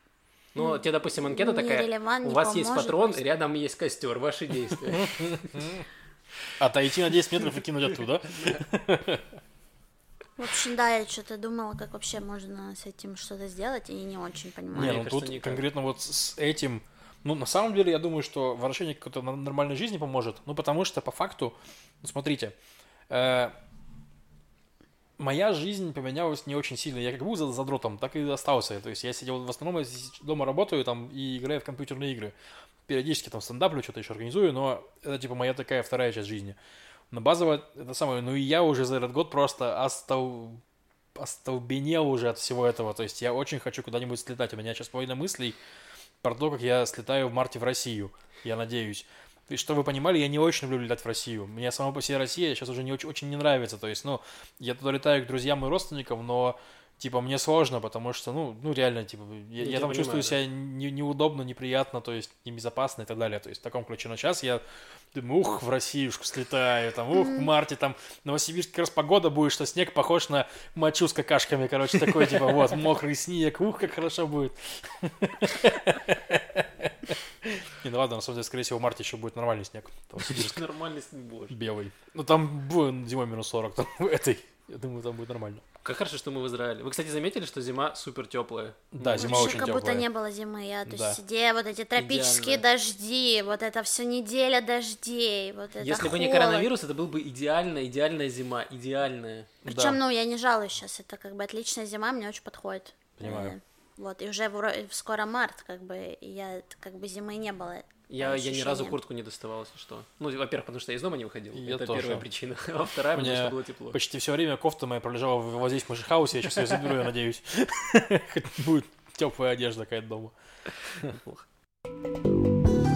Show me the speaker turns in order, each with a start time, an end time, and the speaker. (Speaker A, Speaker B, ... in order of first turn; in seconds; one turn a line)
Speaker A: 0.5-5.7
Speaker B: 1.3-3.2
Speaker C: 5.2-5.8
Speaker C: 6.6-9.4
Speaker B: 10.4-15.0
Speaker A: 14.7-15.6
Speaker C: 14.8-22.6
Speaker C: 23.1-23.5
Speaker C: 25.2-32.3
Speaker C: 32.9-36.6
Speaker C: 37.1-40.6
Speaker C: 41.1-45.6
Speaker C: 46.2-64.6
Speaker A: 59.6-60.4
Speaker C: 65.1-80.6
Speaker B: 67.1-67.5
Speaker A: 80.2-81.6
Speaker C: 81.5-85.6
Speaker A: 85.8-89.7
Speaker C: 88.9-90.1
Speaker B: 89.2-96.7
Speaker C: 90.9-91.2
Speaker A: 92.0-92.6
Speaker A: 95.8-99.5
Speaker B: 99.7-109.0
Speaker C: 99.7-100.0
Speaker C: 103.2-103.6
Speaker A: 108.1-114.0
Speaker C: 111.5-112.3
Speaker C: 113.1-120.3
Speaker A: 120.9-121.4